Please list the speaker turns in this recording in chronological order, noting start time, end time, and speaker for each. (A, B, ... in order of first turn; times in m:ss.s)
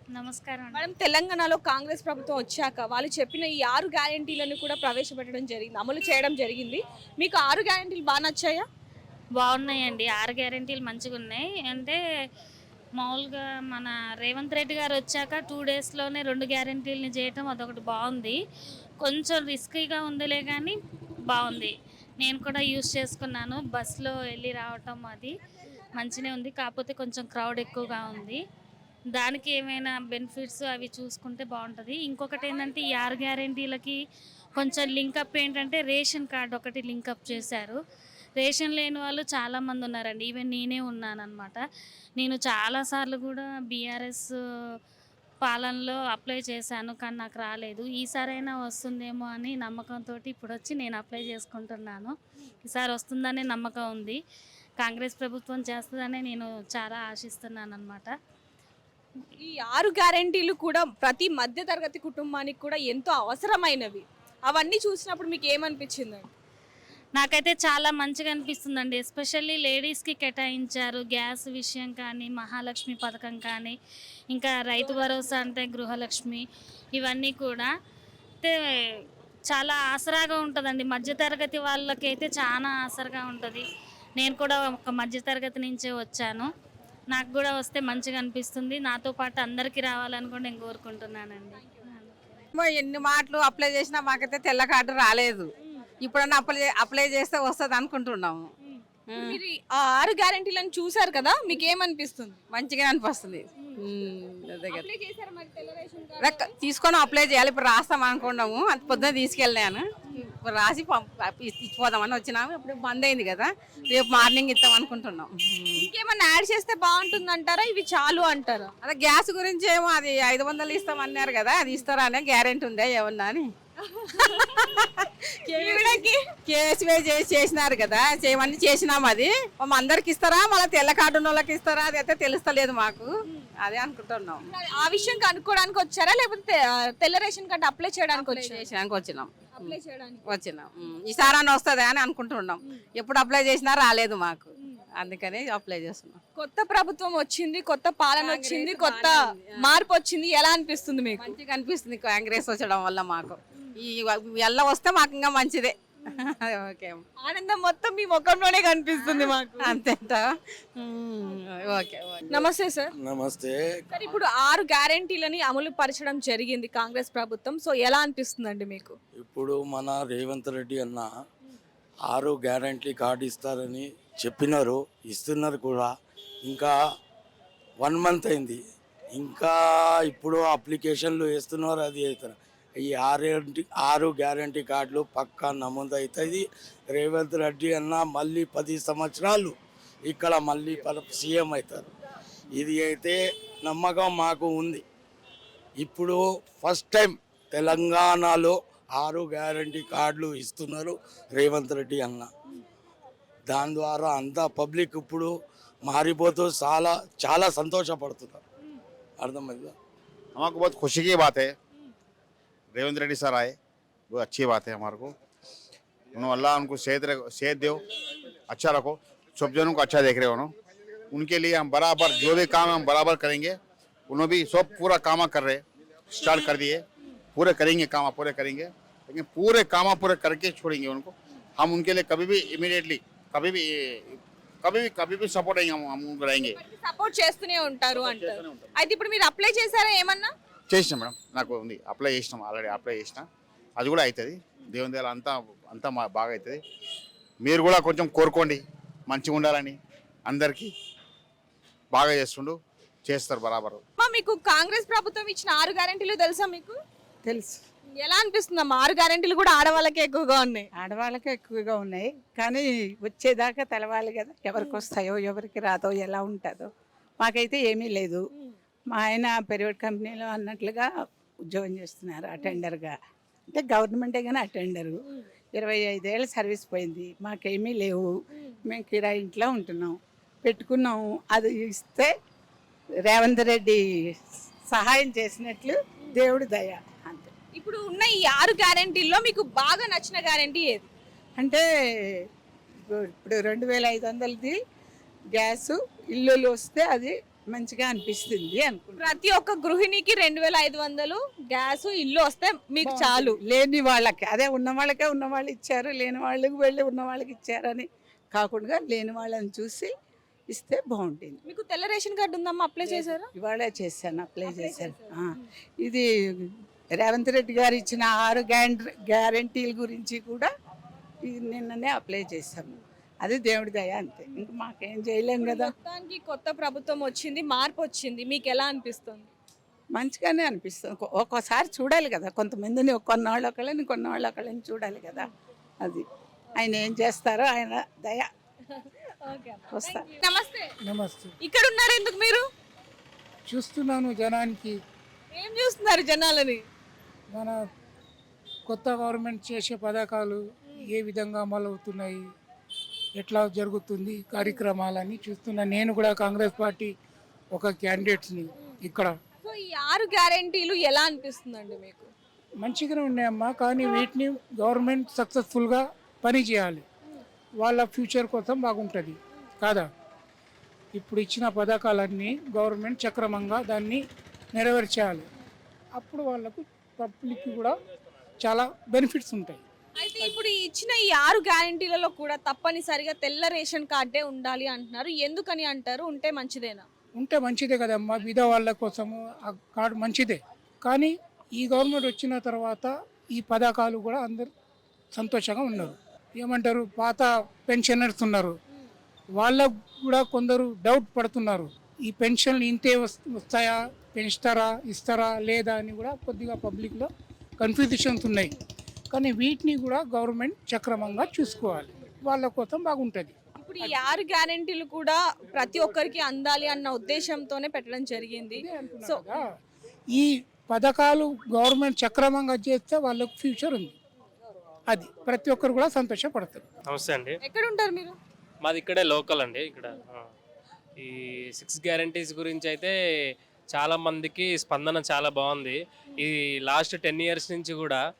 0:00.2-0:00.9 A
0:00.7-0:08.6 B
0:09.4-0:12.0 A
0:13.0-0:18.4 A
0:19.0-0:20.7 A
0:21.3-0:25.4 A
0:26.0-0:28.4 A
0:29.2-0:34.0 A
0:34.6-0:37.8 A
0:38.4-0:41.6 A
0:42.2-0:44.3 A
0:45.4-0:52.1 A
0:52.6-0:54.2 A
0:54.8-0:58.1 A
0:59.4-1:06.3 B
1:07.2-1:13.8 A
1:14.3-1:16.4 A
1:17.0-1:17.7 A
1:18.4-1:19.0 A
1:19.5-1:23.6 A
1:24.2-1:26.5 A
1:27.1-1:32.2 A
1:32.5-1:35.5 C
1:36.0-1:38.5 C
1:38.7-1:42.4 B
1:39.1-1:39.4 C
1:42.5-1:44.9 C
1:44.7-1:46.5 B
1:46.2-1:55.9 C
1:55.8-1:58.7 B
1:58.8-2:03.5 C
2:04.6-2:13.1 C
2:05.5-2:06.2 B
2:13.6-2:14.4 C
2:14.5-2:18.7 B
2:18.2-2:26.2 C
2:19.6-2:20.3 B
2:26.4-2:31.3 B
2:28.2-2:29.8 C
2:31.2-2:37.0 C
2:37.2-2:39.8 B
2:39.0-2:42.5 C
2:42.3-2:42.9 B
2:43.0-2:43.8 D
2:43.9-2:49.0 B
2:49.2-2:51.1 D
2:52.1-2:55.9 D
2:56.4-2:56.7 D
2:57.8-2:58.6 D
2:59.2-3:09.6 D
3:10.1-3:11.9 D
3:12.5-3:14.8 D
3:15.8-3:22.3 D
3:23.5-3:25.3 D
3:25.8-3:28.4 D
3:29.2-3:29.7 D
3:30.4-3:31.5 E
3:32.8-3:33.6 E
3:34.1-3:35.1 E
3:36.2-3:37.8 E
3:38.5-3:40.5 E
3:41.1-3:43.6 E
3:44.1-3:45.6 E
3:46.1-3:46.8 E
3:47.4-3:56.6 E
3:56.5-4:00.3 B
3:58.1-3:58.4 E
4:00.7-4:03.3 E
4:03.8-4:06.6 E
4:07.4-4:10.7 E
4:11.9-4:13.8 E
4:14.0-4:16.8 B
4:17.2-4:17.6 F
4:18.0-4:20.7 B
4:20.8-4:26.7 F
4:27.2-4:28.3 F
4:28.9-4:30.9 F
4:31.5-4:33.0 F
4:33.5-4:35.0 F
4:35.6-4:38.1 F
4:38.7-4:42.1 F
4:43.0-4:43.8 F
4:44.7-4:47.3 F
4:47.6-4:50.9 B
4:51.4-4:51.6 F
4:52.9-4:54.6 F
4:55.4-4:59.2 F
4:59.0-5:03.4 B
5:02.8-5:09.9 F
5:10.5-5:11.4 F
5:11.5-5:13.3 B
5:12.8-5:20.5 F
5:14.4-5:15.2 B
5:21.2-5:25.7 F
5:25.4-5:29.3 B
5:29.9-5:35.3 F
5:36.6-5:38.3 F
5:38.7-5:40.7 B
5:39.7-5:40.1 F
5:40.8-5:41.3 G
5:41.4-5:42.4 B
5:43.5-5:44.8 G
5:45.3-5:46.6 B
5:47.3-5:47.6 G
5:48.7-5:52.3 G
5:53.2-5:57.0 G
5:57.5-5:59.1 G
5:59.4-6:02.1 B
6:02.6-6:06.8 G
6:07.6-6:09.9 G
6:10.9-6:15.3 G
6:15.9-6:17.8 G
6:18.4-6:19.6 G
6:20.0-6:26.8 B
6:27.2-6:34.5 G
6:35.1-6:38.6 G
6:39.3-6:48.5 G
6:49.1-6:53.4 G
6:53.6-6:59.3 B
6:58.6-6:59.6 G
7:00.1-7:04.0 G
7:04.9-7:06.6 G
7:06.9-7:07.4 H
7:07.4-7:08.2 B
7:08.6-7:10.3 H
7:11.0-7:12.9 H
7:13.7-7:18.0 H